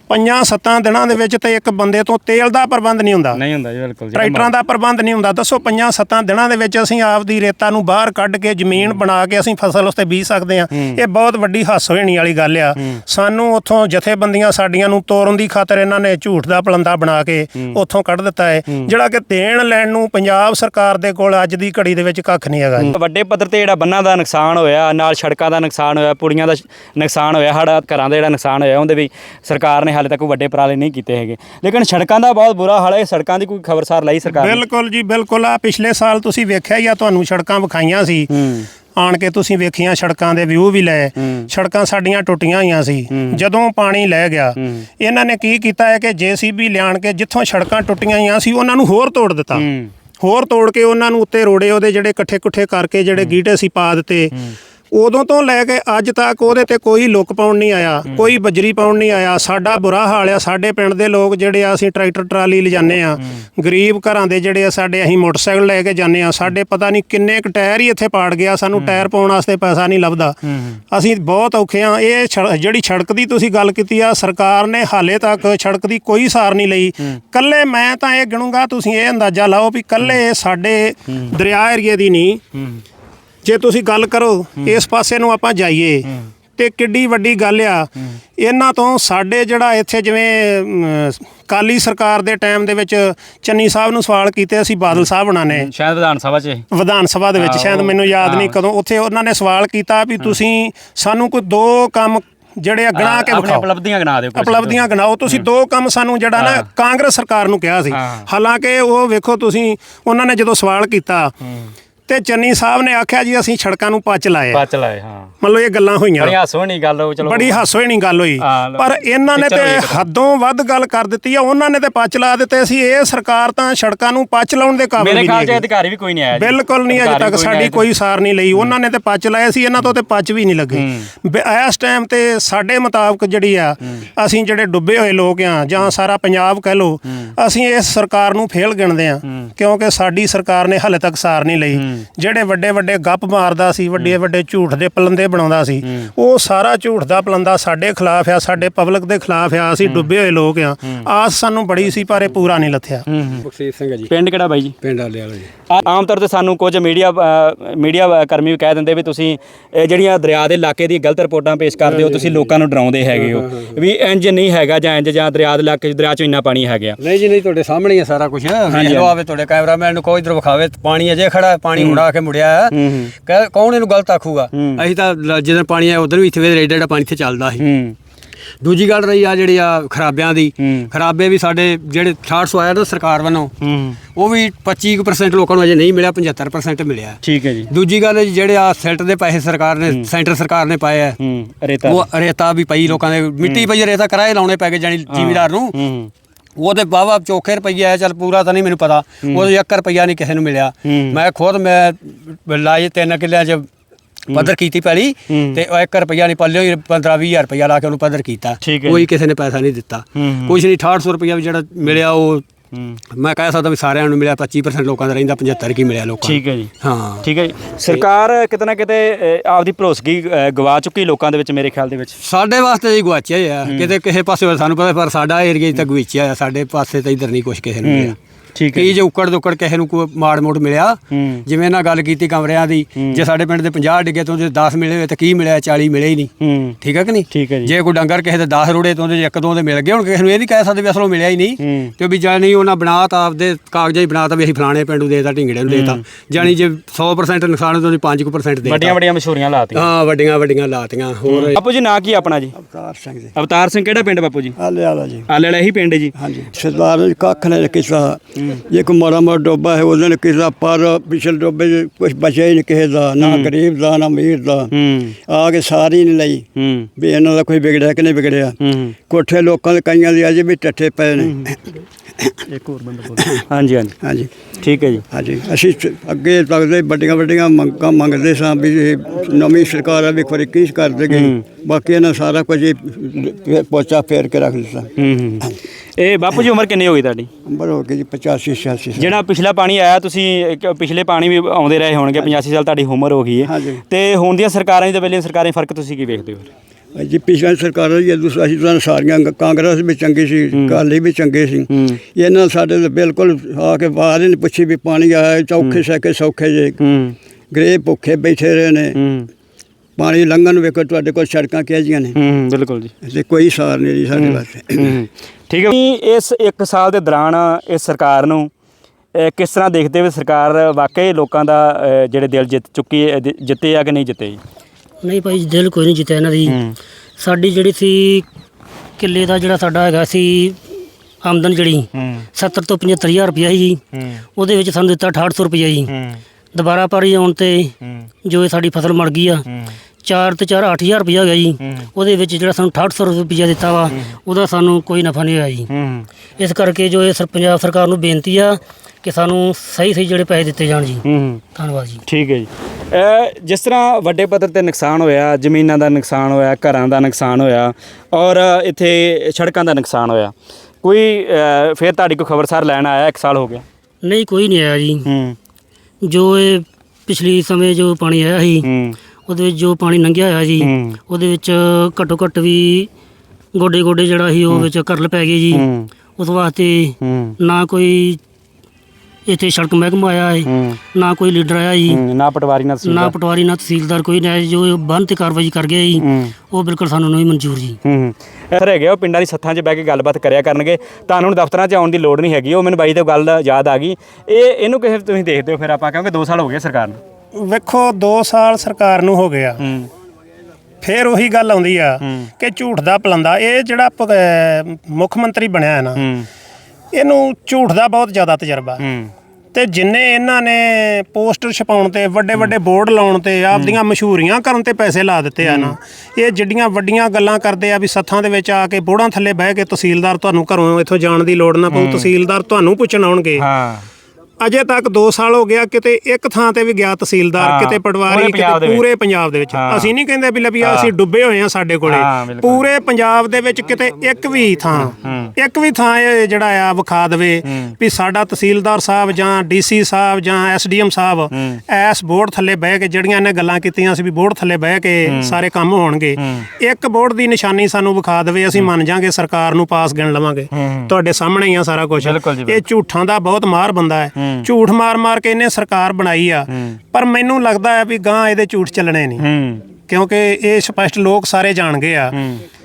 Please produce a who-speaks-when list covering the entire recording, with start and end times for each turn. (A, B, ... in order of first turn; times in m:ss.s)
0:00.1-0:03.4 A
0:03.3-0:04.5 B
0:04.1-0:22.9 A
0:22.8-0:34.6 B
0:34.3-0:38.3 A
0:38.3-0:38.7 B
0:39.0-0:49.7 A
0:41.2-0:41.5 B
0:43.1-0:43.4 B
0:44.6-0:44.8 B
0:49.5-0:49.9 B
0:50.2-0:54.3 A
0:54.9-1:10.4 A
1:08.8-1:09.0 B
1:10.9-1:22.4 A
1:23.4-1:35.7 A
1:35.5-1:36.6 B
1:36.7-1:43.7 A
1:37.4-1:38.6 B
1:43.0-1:45.4 B
1:44.3-1:51.3 A
1:46.4-1:46.6 B
1:47.9-1:48.3 B
1:52.1-1:54.6 A
1:54.5-1:55.3 B
1:55.4-1:56.3 A
1:56.2-1:57.6 B
1:57.2-2:05.6 A
1:58.4-2:00.0 B
2:05.0-2:07.8 B
2:06.3-2:33.0 A
2:10.7-2:11.1 B
2:33.1-2:33.4 B
2:33.4-2:34.1 C
2:34.1-2:34.7 B
2:34.8-2:35.5 C
2:35.7-2:47.0 B
2:41.8-2:42.5 C
2:43.1-2:43.8 C
2:47.0-2:57.6 C
2:48.7-2:49.1 B
2:51.8-2:52.0 B
2:52.7-2:53.1 B
2:54.5-2:54.8 B
2:57.6-2:58.0 B
2:58.6-3:03.5 C
3:00.6-3:00.9 B
3:03.6-3:04.0 B
3:04.1-3:11.2 C
3:07.2-3:07.7 B
3:11.2-3:12.1 B
3:11.8-3:15.8 C
3:12.9-3:13.7 B
3:15.1-3:16.1 B
3:16.6-3:23.7 C
3:19.2-3:19.5 B
3:20.8-3:21.2 B
3:24.3-3:32.4 C
3:25.3-3:25.6 B
3:28.6-3:29.1 B
3:30.2-3:30.6 B
3:32.7-3:33.0 B
3:33.1-3:37.3 C
3:36.2-3:42.2 B
3:42.2-3:48.2 C
3:43.6-3:43.9 B
3:47.8-3:49.0 B
3:48.7-4:09.0 C
3:51.1-3:51.4 B
3:53.0-3:53.2 B
3:56.4-3:56.8 B
3:57.3-3:57.7 B
4:01.6-4:01.9 B
4:05.7-4:06.0 B
4:08.6-4:09.9 B
4:09.7-4:11.6 C
4:11.3-4:12.5 B
4:12.6-4:13.3 D
4:13.3-4:14.6 B
4:14.6-4:15.3 D
4:15.3-4:16.1 B
4:16.2-4:24.7 D
4:23.2-4:23.5 B
4:24.7-4:25.2 B
4:25.3-4:26.4 D
4:26.6-4:26.9 B
4:27.0-4:28.6 D
4:28.6-4:29.0 B
4:29.1-4:31.6 D
4:31.2-4:31.5 B
4:32.5-4:34.0 B
4:34.0-4:34.3 D
4:34.6-4:35.0 B
4:35.1-4:44.9 D
4:41.1-4:41.4 B
4:45.0-4:47.3 B
4:47.4-4:49.2 D
4:49.0-4:56.5 B
4:52.1-4:52.4 D
4:53.4-4:53.8 D
4:56.9-5:06.8 D
5:00.5-5:00.8 B
5:01.7-5:02.0 B
5:06.8-5:07.2 B
5:07.5-5:09.0 D
5:08.9-5:09.3 B
5:10.0-5:12.2 D
5:12.1-5:12.9 B
5:13.0-5:15.0 D
5:14.1-5:18.5 B
5:19.2-5:24.4 B
5:25.0-5:26.6 E
5:26.5-5:26.8 B
5:27.2-5:28.2 E
5:29.0-5:30.6 E
5:31.2-5:33.8 E
5:32.0-5:32.2 B
5:33.9-5:34.2 B
5:34.3-5:35.9 E
5:35.9-5:36.2 B
5:36.5-5:39.4 E
5:39.5-5:39.7 B
5:40.0-5:45.7 E
5:45.7-5:46.1 B
5:46.4-5:52.0 E
5:51.0-5:51.4 B
5:52.1-6:03.6 B
6:04.0-6:05.1 E
6:05.0-6:05.4 B
6:06.0-6:08.7 E
6:08.6-6:09.0 B
6:09.3-6:12.9 E
6:10.6-6:11.0 B
6:13.5-6:15.6 E
6:15.5-6:15.9 B
6:16.2-6:18.2 E
6:17.0-6:17.3 B
6:19.3-6:22.0 E
6:20.5-6:20.8 B
6:21.9-6:23.1 B
6:22.8-6:27.8 E
6:26.0-6:26.3 B
6:27.8-6:37.0 B
6:37.3-6:39.6 A
6:39.6-6:39.9 B
6:40.8-6:46.0 A
6:46.0-6:46.3 B
6:46.9-6:48.8 A
6:48.8-6:49.1 B
6:49.5-7:03.4 A
6:53.5-6:53.8 B
6:55.4-6:55.7 B
7:01.7-7:02.1 B
7:03.4-7:03.9 B
7:04.4-7:39.2 A
7:07.4-7:08.8 B
7:09.5-7:09.9 B
7:10.6-7:10.9 B
7:11.8-7:12.6 B
7:14.7-7:15.3 B
7:17.5-7:17.7 B
7:21.3-7:21.6 B
7:25.0-7:25.4 B
7:26.2-7:26.5 B
7:30.5-7:30.9 B
7:32.0-7:32.6 B
7:34.2-7:34.4 B
7:36.5-7:36.8 B
7:39.2-7:39.6 B
7:39.9-7:42.2 A
7:42.1-7:42.4 B